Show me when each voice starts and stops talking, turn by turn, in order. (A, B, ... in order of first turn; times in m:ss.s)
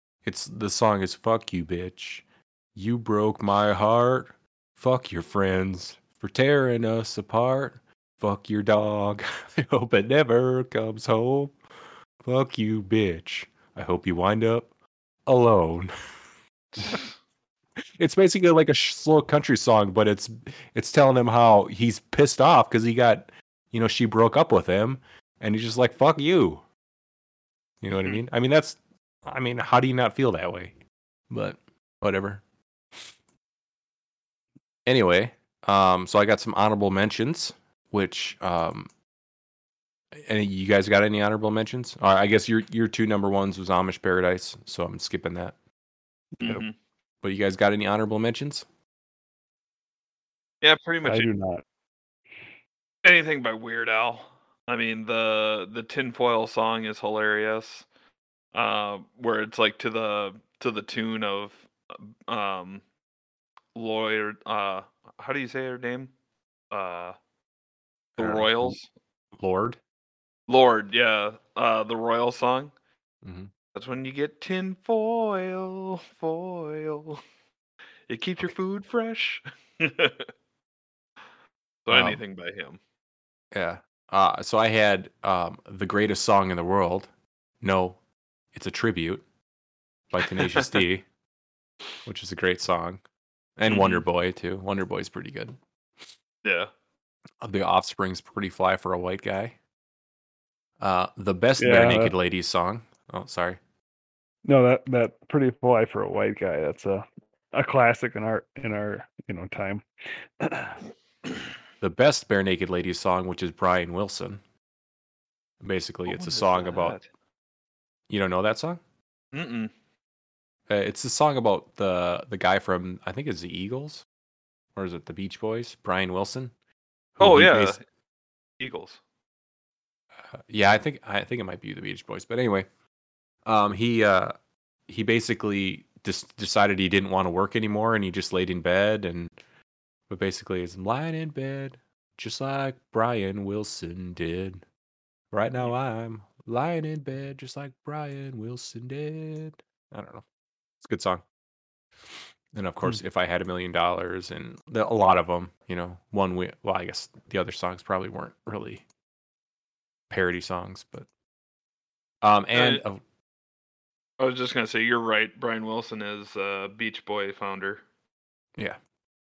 0:00.2-0:11.6 A
0:12.2-0:14.7 A
0:15.3-0:15.9 A
0:16.8-0:17.1 B
0:18.0-0:26.6 A
0:27.8-0:30.7 A
0:31.3-0:32.4 A
0:34.9-0:38.9 A
0:40.1-0:45.6 A
0:46.4-0:46.7 B
0:47.2-0:48.6 A
0:50.6-0:51.3 B
0:51.0-0:51.6 C
0:53.0-0:57.9 B
0:58.5-1:01.7 B
1:02.3-1:02.8 B
1:03.8-1:06.1 B
1:06.7-1:07.1 B
1:08.2-1:08.9 B
1:08.2-1:08.8 A
1:09.4-1:09.8 A
1:10.5-1:12.7 B
1:13.2-1:13.5 A
1:13.7-1:17.2 B
1:18.1-1:20.3 B
1:21.9-1:22.8 B
1:21.9-1:22.2 A
1:23.5-1:27.1 A
1:27.6-1:28.0 A
1:28.5-1:29.2 A
1:30.1-1:31.1 A
1:30.3-1:30.8 B
1:32.0-1:33.0 A
1:33.6-1:35.6 A
1:33.6-1:34.0 B
1:36.4-1:36.7 B
1:37.4-1:39.6 A
1:40.8-1:43.6 A
1:41.6-1:42.1 C
1:44.4-1:49.8 C
1:50.4-1:50.8 C
1:51.8-1:54.4 A
1:55.6-1:57.0 A
1:56.1-1:57.1 B
1:58.1-1:58.8 A
1:59.3-1:59.7 B
2:00.7-2:04.0 A
2:04.8-2:06.5 A
2:07.2-2:07.8 A
2:07.2-2:07.8 B
2:08.6-2:09.0 B
2:10.3-2:12.7 A
2:13.4-2:14.3 A
2:14.9-2:19.3 A
2:20.1-2:24.6 A
2:25.3-2:30.2 A
2:30.8-2:31.2 A
2:32.5-2:38.8 A
2:40.1-2:41.1 A
2:42.2-2:43.0 A
2:42.5-2:42.8 B
2:44.2-2:47.8 B